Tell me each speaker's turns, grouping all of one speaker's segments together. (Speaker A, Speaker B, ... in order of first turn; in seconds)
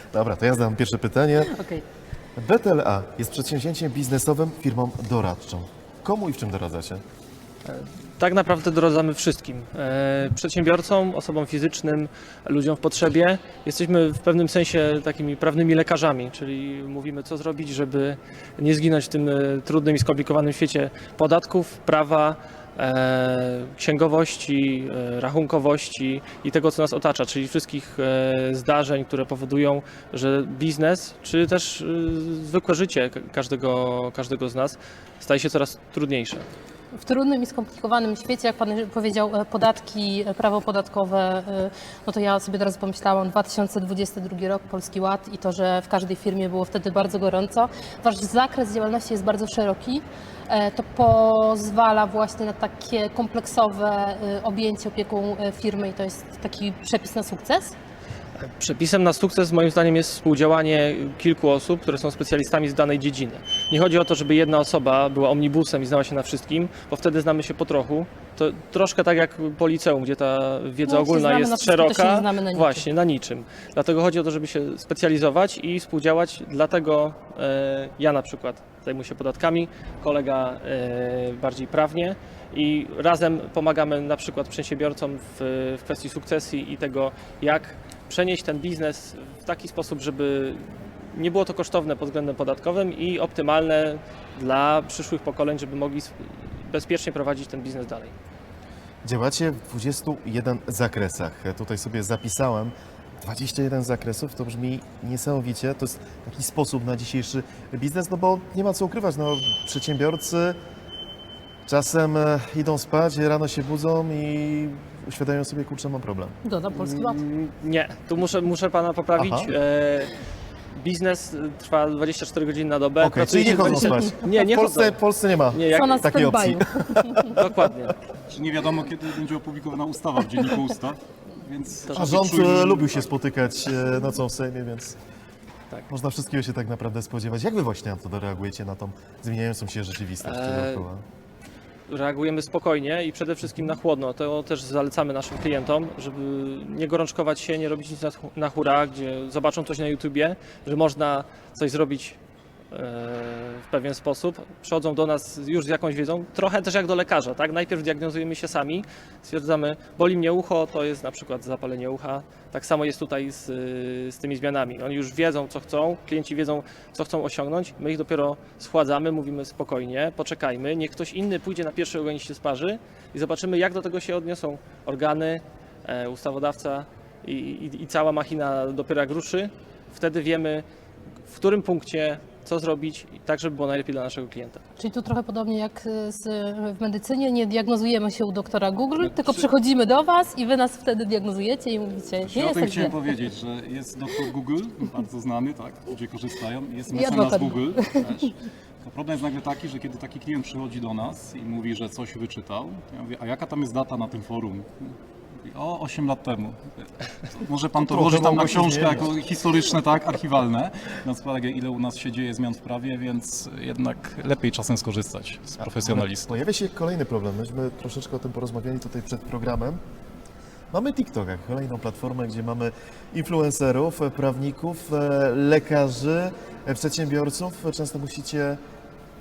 Speaker A: 0.1-1.5, 2.4-7.0, 99.0-110.6, 111.7-116.4, 119.2-119.5, 123.0-127.3, 131.9-135.0, 135.9-141.0, 207.8-209.1, 215.6-219.8, 220.7-228.6
Speaker B: 1.4-1.8, 37.0-57.8, 70.8-72.8, 116.5-117.2, 125.7-127.3, 184.8-193.1, 196.9-198.1
Speaker C: 7.7-36.5, 58.4-98.1, 116.7-120.1, 120.7-125.0, 125.5-126.2, 127.3-128.0, 131.9-132.3, 140.2-140.8, 141.9-152.2, 152.7-180.7, 181.3-184.6
Speaker D: 128.3-133.1, 189.0-189.4, 192.2-206.6, 207.3-216.3